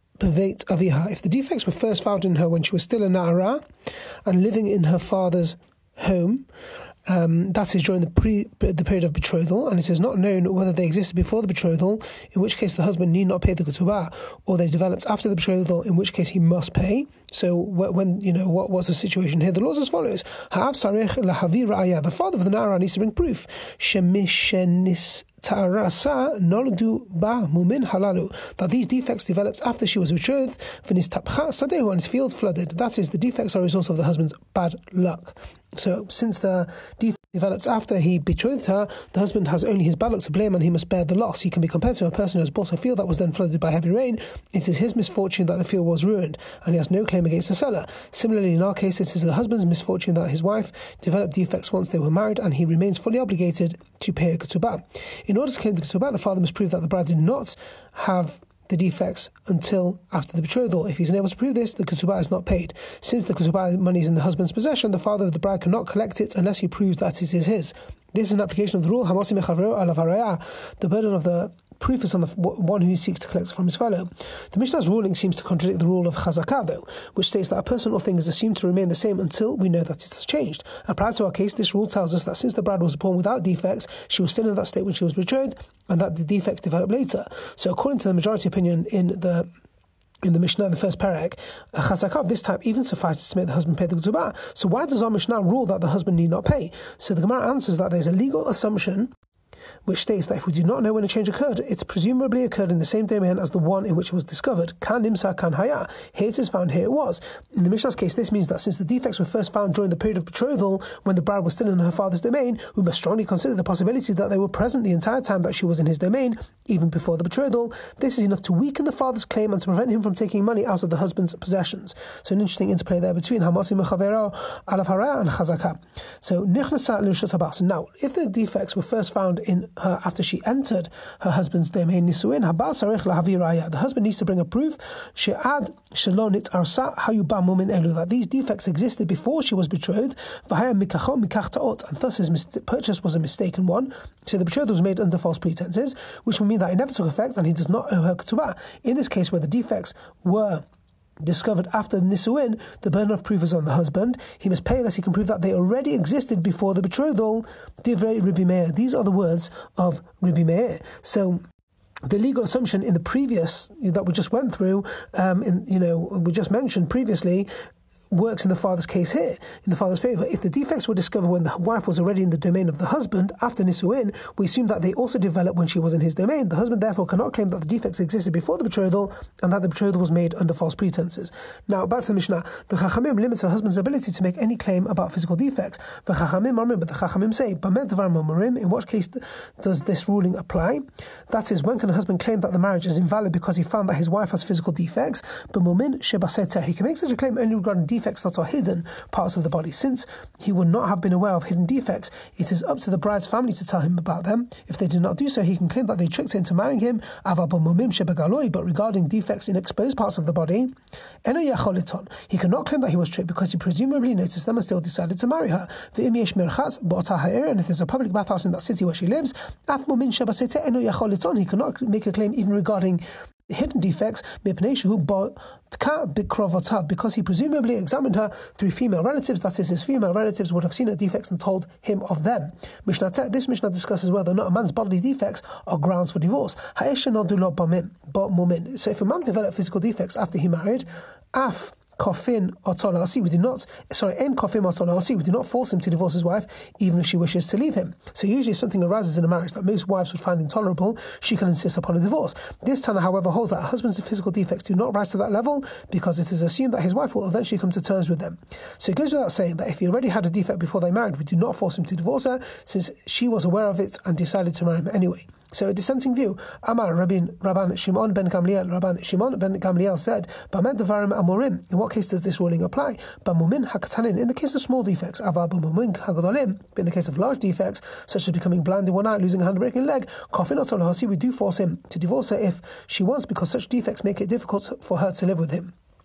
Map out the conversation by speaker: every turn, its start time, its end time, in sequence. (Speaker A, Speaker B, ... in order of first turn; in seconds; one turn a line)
Speaker A: 0.2-3.6
Speaker A: 4.2-6.5
Speaker A: 7.0-89.5
Speaker A: 90.2-99.1
Speaker A: 99.8-150.6
Speaker A: 151.2-161.4
Speaker A: 162.0-167.5
Speaker A: 168.1-210.7
Speaker A: 211.2-285.7